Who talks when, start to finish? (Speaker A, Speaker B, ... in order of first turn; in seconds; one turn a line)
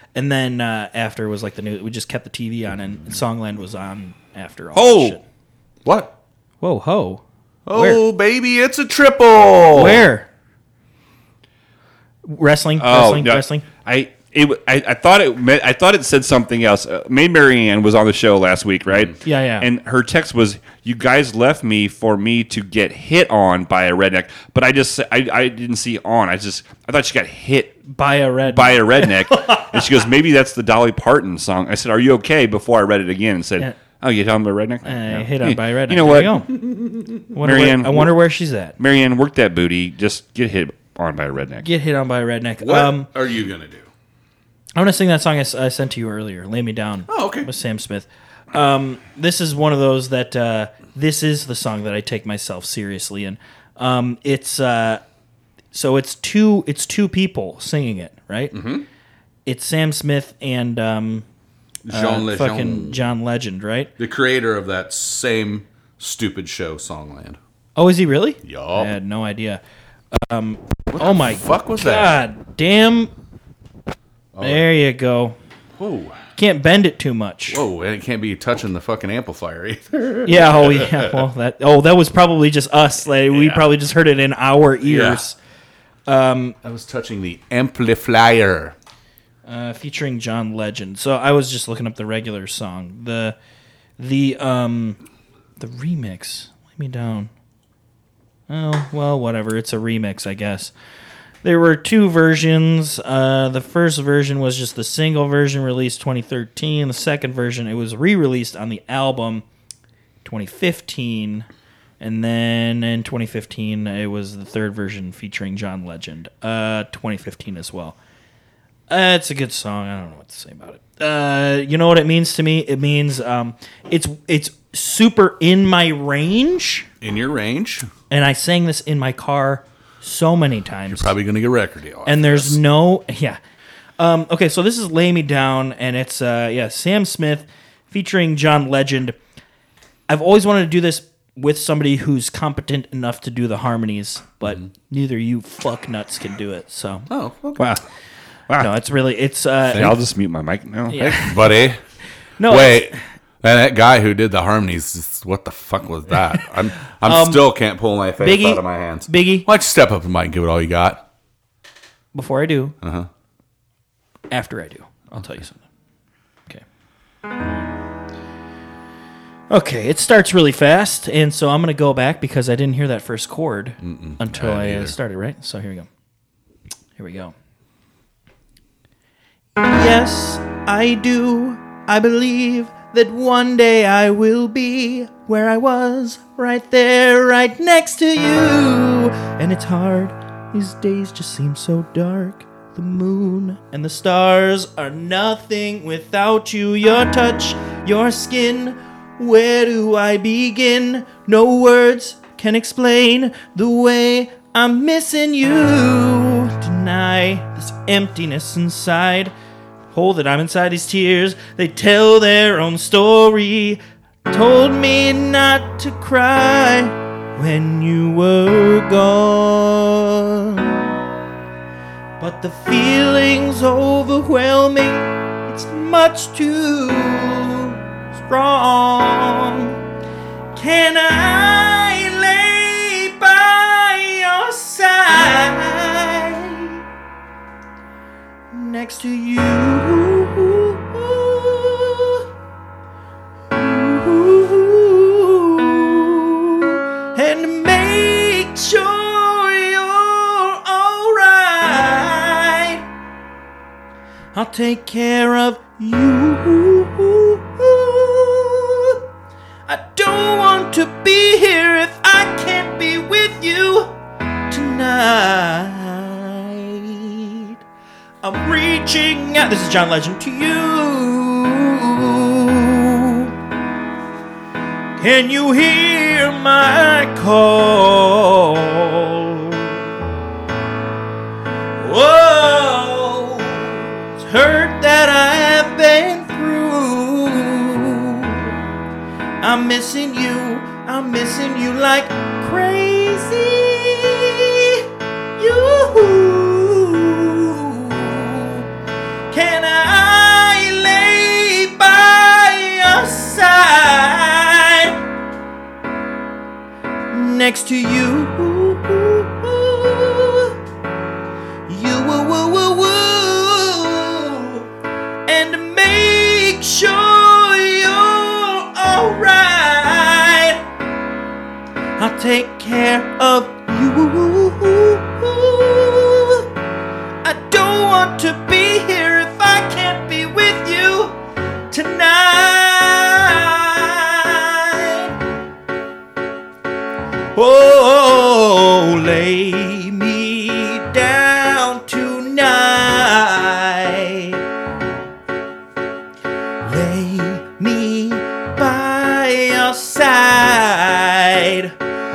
Speaker A: 0.1-5.2
Speaker B: 4.7-5.2
Speaker C: 5.8-6.1
Speaker A: 6.6-8.0
Speaker C: 7.7-10.1
Speaker A: 9.7-10.3
Speaker A: 12.2-13.7
Speaker B: 12.8-27.8
Speaker A: 19.2-19.6
Speaker A: 27.9-29.8
Speaker B: 28.5-36.5
Speaker A: 34.8-36.5
Speaker C: 36.6-37.2
Speaker A: 37.3-38.8
Speaker B: 37.4-38.1
Speaker B: 38.8-41.6
Speaker A: 41.6-43.1
Speaker C: 42.6-43.9
Speaker A: 44.7-55.0
Speaker C: 47.1-47.5
Speaker A: 55.7-58.5
Speaker C: 58.5-58.9
Speaker A: 59.5-61.2
Speaker C: 61.8-63.0
Speaker A: 61.9-63.9
Speaker C: 64.0-67.4
Speaker A: 67.8-69.6
Speaker C: 68.4-68.9
Speaker A: 70.1-73.1
Speaker C: 70.9-72.2
Speaker C: 74.3-74.7
Speaker A: 74.4-75.3
Speaker C: 75.8-76.2
Speaker A: 76.4-77.6
Speaker C: 77.5-81.2
Speaker A: 80.2-85.3
Speaker C: 84.8-85.2
Speaker A: 86.1-86.5
Speaker C: 86.6-88.7
Speaker A: 89.5-93.3
Speaker A: 94.0-95.0
Speaker A: 95.6-97.3
Speaker A: 98.5-100.7
Speaker A: 101.4-109.4
Speaker A: 110.2-111.5
Speaker A: 112.0-118.0
Speaker A: 118.9-126.9
Speaker C: 127.0-127.9
Speaker A: 128.1-131.2
Speaker C: 130.9-132.6
Speaker A: 132.0-133.4
Speaker A: 134.0-139.2
Speaker A: 140.1-147.8
Speaker C: 147.1-147.6
Speaker A: 148.6-149.9
Speaker C: 149.7-150.0
Speaker B: 149.7-151.2
Speaker A: 150.9-151.4
Speaker C: 151.1-151.8
Speaker A: 152.4-153.0
Speaker C: 152.5-161.0
Speaker A: 157.0-157.5
Speaker A: 158.2-159.5
Speaker A: 162.1-162.7
Speaker C: 162.8-163.1
Speaker A: 164.3-165.6
Speaker A: 169.5-175.9
Speaker C: 173.8-174.9
Speaker A: 177.0-177.3
Speaker A: 179.6-209.3
Speaker A: 209.9-220.9
Speaker A: 222.2-229.8
Speaker A: 230.5-236.8
Speaker A: 238.5-242.2
Speaker A: 243.5-252.8
Speaker A: 254.3-259.0
Speaker A: 259.7-263.9
Speaker A: 264.5-267.6
Speaker A: 268.2-273.3
Speaker A: 275.0-279.8
Speaker A: 281.8-288.6
Speaker A: 289.4-294.8
Speaker A: 295.4-298.7
Speaker A: 299.3-305.0
Speaker A: 307.1-310.5
Speaker A: 311.7-314.7
Speaker A: 315.3-320.6
Speaker A: 322.0-326.5
Speaker A: 327.2-331.2
Speaker A: 331.7-335.1
Speaker A: 337.3-344.4
Speaker A: 346.6-351.7